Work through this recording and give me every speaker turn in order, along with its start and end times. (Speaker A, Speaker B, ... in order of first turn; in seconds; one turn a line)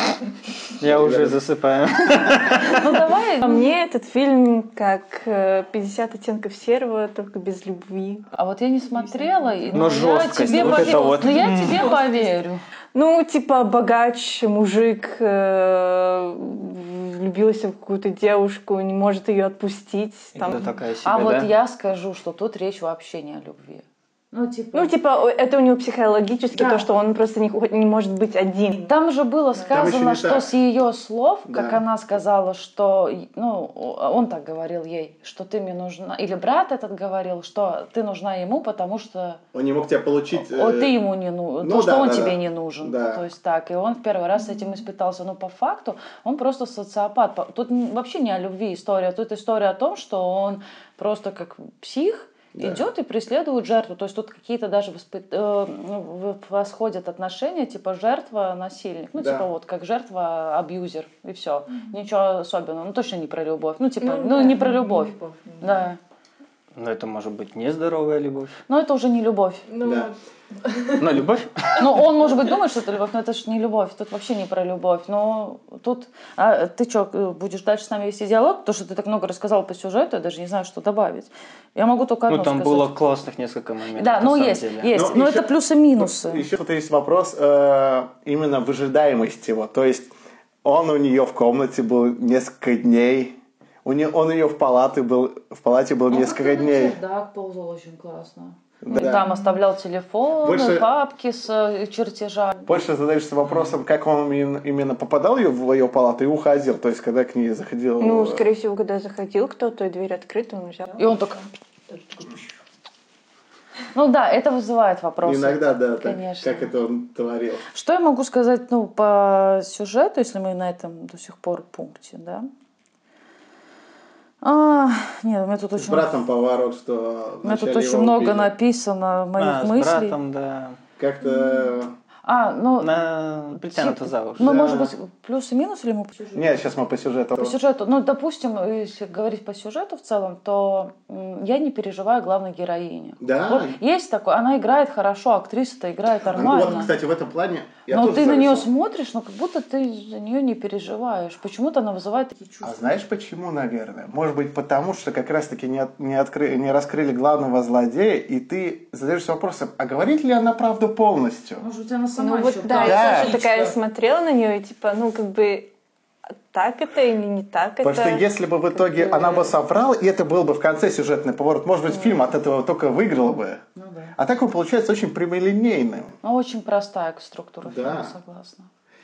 Speaker A: 0.7-2.9
Speaker B: 0.8-1.4
Speaker C: 2.7-3.7
Speaker D: 3.4-8.3
Speaker C: 8.3-12.6
Speaker D: 9.6-12.2
Speaker A: 9.7-11.9
Speaker D: 12.9-20.7
Speaker A: 20.4-21.5
Speaker C: 21.0-24.9
Speaker D: 24.7-28.9
Speaker C: 26.5-26.9
Speaker C: 28.8-39.4
Speaker B: 29.7-30.5
Speaker B: 31.5-31.8
Speaker B: 39.5-41.0
Speaker C: 40.4-66.0
Speaker B: 41.6-43.2
Speaker B: 52.5-52.8
Speaker B: 59.1-59.5
Speaker D: 64.0-65.8
Speaker A: 66.7-68.6
Speaker C: 68.7-69.6
Speaker D: 69.7-71.0
Speaker B: 69.8-70.1
Speaker A: 71.0-71.9
Speaker C: 71.8-82.9
Speaker A: 82.3-84.9
Speaker C: 84.0-86.4
Speaker B: 84.9-90.1
Speaker B: 90.6-97.0
Speaker C: 96.1-102.7
Speaker B: 98.8-99.2
Speaker D: 99.0-99.4
Speaker B: 100.4-100.9
Speaker B: 102.7-108.4
Speaker D: 108.0-111.2
Speaker C: 111.0-111.4
Speaker C: 113.9-116.7
Speaker B: 115.2-117.7
Speaker C: 117.7-122.5
Speaker C: 124.4-126.1
Speaker B: 125.8-128.5
Speaker C: 127.4-130.2
Speaker A: 129.4-130.8
Speaker B: 131.0-131.9
Speaker C: 132.2-132.9
Speaker A: 132.8-134.5
Speaker C: 133.6-136.6
Speaker B: 134.4-134.9
Speaker B: 136.3-137.6
Speaker C: 137.3-146.9
Speaker B: 143.2-143.8
Speaker B: 146.2-148.7
Speaker C: 147.9-152.9
Speaker B: 152.6-161.6
Speaker C: 161.6-163.8
Speaker D: 162.2-165.7
Speaker B: 162.8-163.4
Speaker D: 166.5-169.5
Speaker B: 167.8-173.6
Speaker C: 173.8-174.1
Speaker B: 174.2-176.2
Speaker C: 176.2-178.7
Speaker B: 177.6-178.1